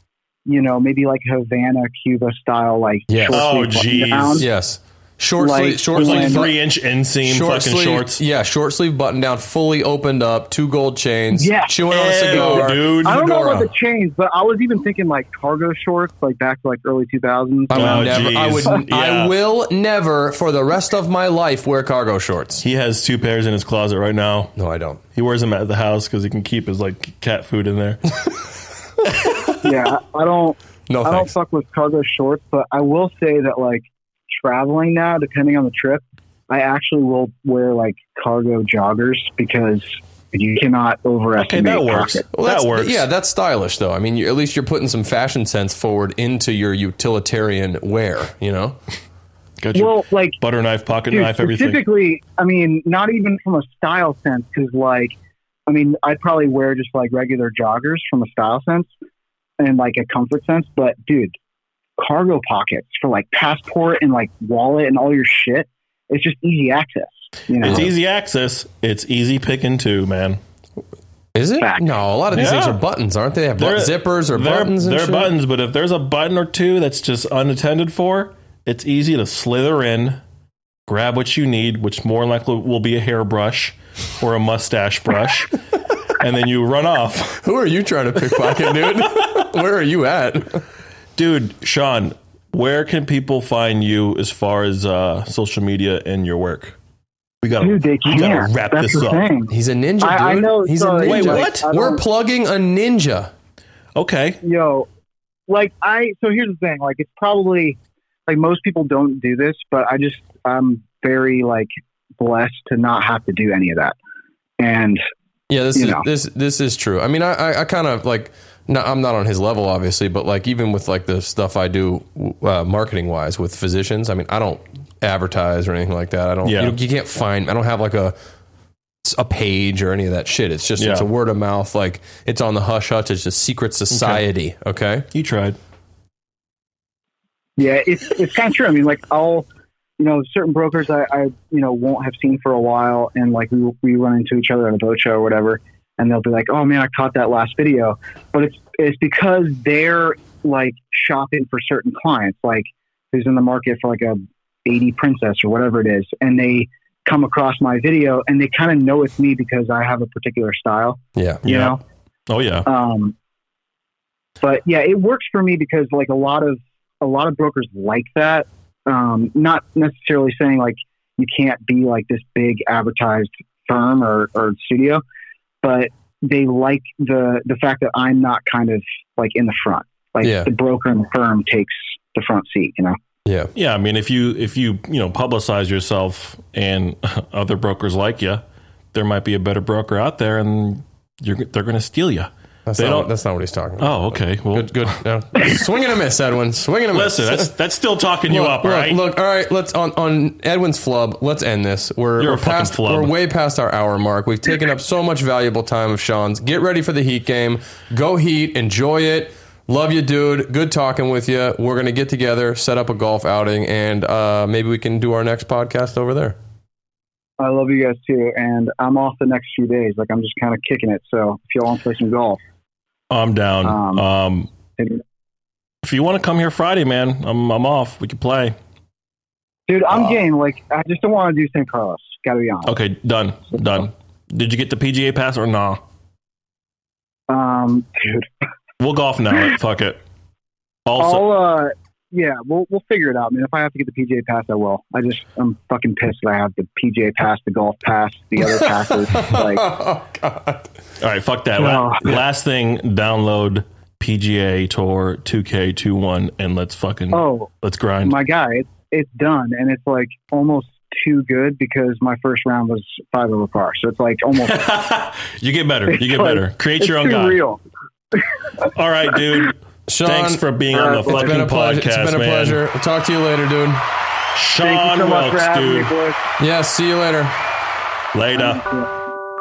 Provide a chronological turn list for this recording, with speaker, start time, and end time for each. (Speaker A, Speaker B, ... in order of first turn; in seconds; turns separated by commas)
Speaker A: 0.5-4.5, Speaker B: 3.1-3.4, Speaker C: 3.3-4.5, Speaker B: 4.4-6.5, Speaker A: 5.4-6.5, Speaker C: 6.0-8.2, Speaker B: 7.2-13.7, Speaker A: 11.3-18.2, Speaker C: 11.9-13.3, Speaker B: 17.7-22.6, Speaker C: 17.7-19.3, Speaker C: 22.6-24.5, Speaker B: 24.6-25.0, Speaker C: 25.1-28.1, Speaker A: 29.6-42.3, Speaker B: 30.9-31.3, Speaker C: 41.4-43.1, Speaker B: 42.3-48.8, Speaker C: 49.6-51.8, Speaker A: 49.7-50.4, Speaker A: 51.1-55.1, Speaker A: 55.7-58.9, Speaker A: 59.6-61.3, Speaker A: 62.0-67.9, Speaker C: 67.6-70.4, Speaker B: 71.3-75.3, Speaker A: 71.6-72.0, Speaker C: 72.3-72.8, Speaker C: 73.6-80.2, Speaker C: 80.9-85.6, Speaker C: 86.2-87.4, Speaker B: 87.4-90.6, Speaker C: 91.2-96.8, Speaker C: 97.4-99.2, Speaker A: 97.6-102.0, Speaker B: 99.5-103.3, Speaker C: 101.0-101.7, Speaker C: 104.0-104.4, Speaker A: 104.4-104.9, Speaker A: 105.5-114.0, Speaker A: 114.6-115.0, Speaker B: 115.5-128.2, Speaker A: 115.8-116.0, Speaker C: 126.5-126.8, Speaker B: 129.0-135.1, Speaker C: 130.8-131.1, Speaker C: 133.9-134.2, Speaker C: 135.1-135.6, Speaker A: 137.6-139.5, Speaker A: 140.0-161.8, Speaker C: 161.4-161.8, Speaker C: 162.3-162.7, Speaker A: 162.7-163.1, Speaker A: 164.4-175.0, Speaker A: 175.6-183.0, Speaker B: 180.2-180.5, Speaker B: 183.2-183.5, Speaker C: 183.6-188.4, Speaker C: 188.9-193.1, Speaker B: 192.7-197.5, Speaker C: 193.8-195.0, Speaker C: 196.9-199.0, Speaker B: 198.3-216.4, Speaker C: 202.2-203.1, Speaker A: 217.4-222.4, Speaker C: 223.1-224.5, Speaker A: 223.7-224.0, Speaker C: 225.8-228.6, Speaker A: 229.7-232.8, Speaker C: 232.7-235.8, Speaker A: 237.3-238.3, Speaker C: 238.8-240.0, Speaker C: 240.9-241.2, Speaker A: 241.0-249.7, Speaker B: 249.2-250.7, Speaker C: 251.0-258.1, Speaker A: 251.6-252.1, Speaker A: 257.1-257.5, Speaker A: 258.0-264.6, Speaker C: 264.4-267.4, Speaker A: 265.9-267.6, Speaker C: 268.7-272.6, Speaker B: 269.9-270.4, Speaker A: 270.7-271.4, Speaker B: 271.1-273.8, Speaker C: 274.4-275.9, Speaker A: 274.6-276.2, Speaker B: 276.4-277.3, Speaker C: 278.1-278.6, Speaker A: 278.3-278.9